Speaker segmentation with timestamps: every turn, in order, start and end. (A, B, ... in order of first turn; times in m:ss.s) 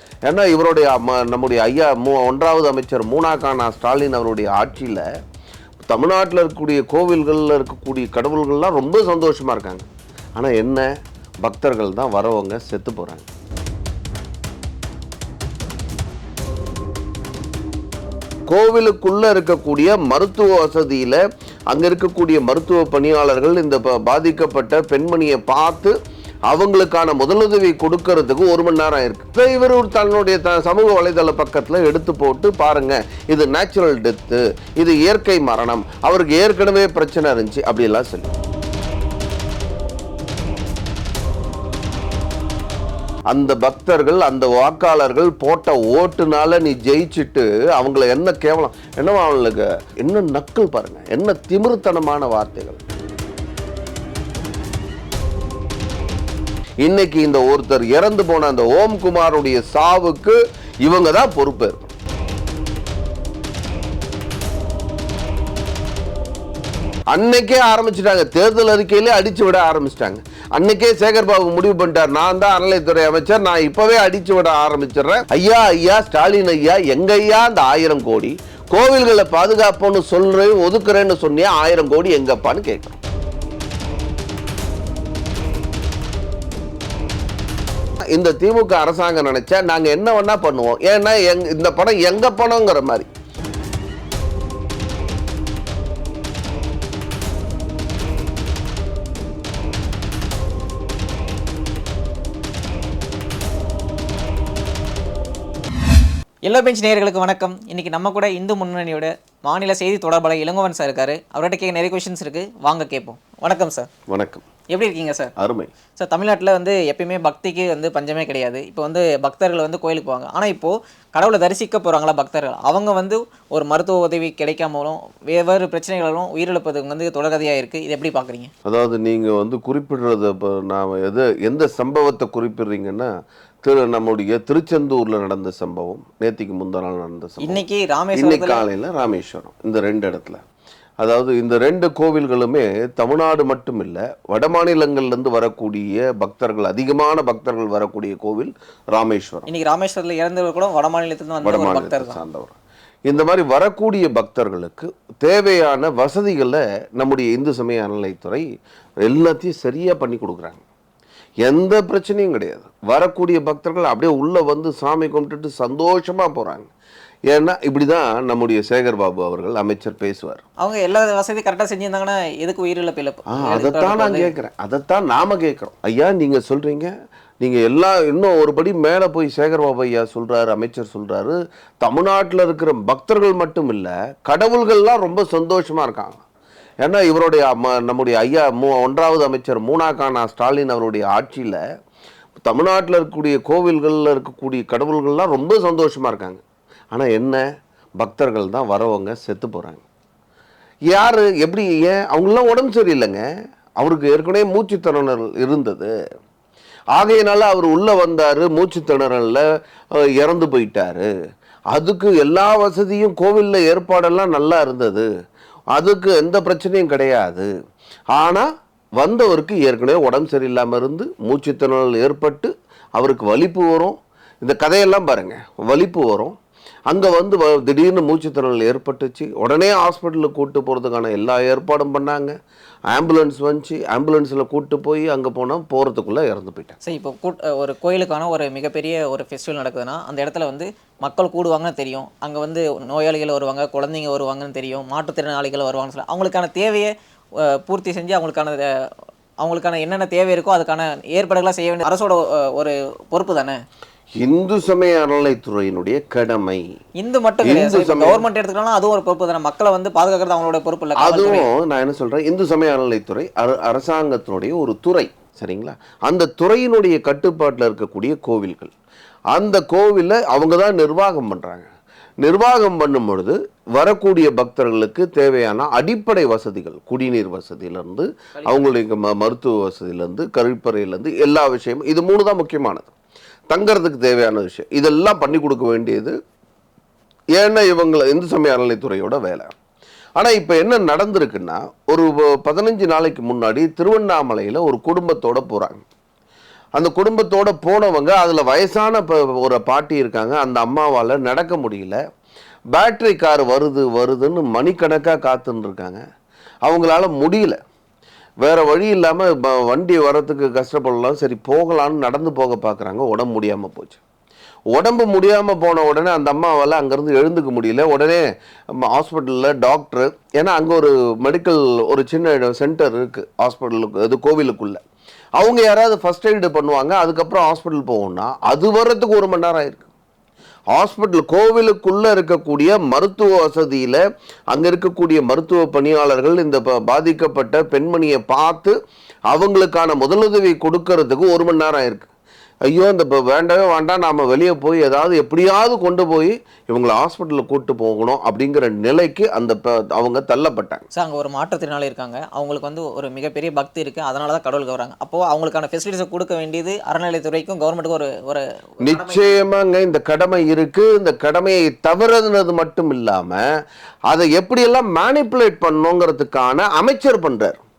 0:00.3-0:05.0 A
0:05.9-0:09.8 A
0:10.4-0:10.9 A
0:11.4-0:13.2 A
0:18.5-0:25.9 A
0:26.5-0:38.3 A
0:43.3-0:52.8 A
0:56.8-1:01.9 A
1:07.1-1:23.0 A
1:28.1-1:33.1 A
1:46.4-1:53.9 B
1:54.1-1:54.4 A
1:54.7-1:55.3 B
1:55.4-1:55.7 A
1:56.0-2:08.5 B
2:08.6-2:13.1 A
2:13.6-2:17.6 A
2:17.4-2:18.6 B
2:18.1-2:20.4 A
2:21.0-2:29.5 A
2:29.5-2:32.2 B
2:31.4-2:32.5 A
2:33.1-2:38.4 A
2:39.0-2:40.6 A
2:41.4-2:46.7 A
2:47.3-2:50.4 A
2:50.6-2:54.3 B
2:53.3-3:06.2 A
3:06.8-3:11.6 A
3:12.4-3:17.4 A
3:18.0-3:19.8 A
3:20.9-3:23.2 A
3:23.8-3:25.9 A
3:26.9-3:29.4 A
3:29.9-3:31.1 A
3:31.7-3:35.1 A
3:35.8-3:37.5 A
3:38.1-3:38.5 A
3:39.0-3:46.3 A
3:46.9-3:52.3 A
3:52.9-3:56.8 A
3:56.8-4:08.7 B
4:09.4-4:13.6 B
4:14.2-4:16.7 A
4:17.0-4:21.5 B
4:17.4-4:18.2 A
4:21.0-4:28.7 A
4:29.3-4:31.7 A
4:32.2-4:42.9 A
4:38.4-4:38.8 B
4:43.5-4:46.1 A
4:47.4-4:49.5 A
4:50.2-4:55.8 A
4:56.8-5:02.0 A
5:02.7-5:06.0 A
5:06.6-5:07.6 A
5:08.4-5:14.0 A
5:14.7-5:18.2 A
5:18.8-5:24.8 A
5:25.4-5:29.9 A
5:30.7-5:38.7 A
5:39.3-5:42.1 A
5:42.7-5:50.8 A
5:50.9-5:59.4 B
5:58.8-6:03.4 A
6:04.1-6:07.6 A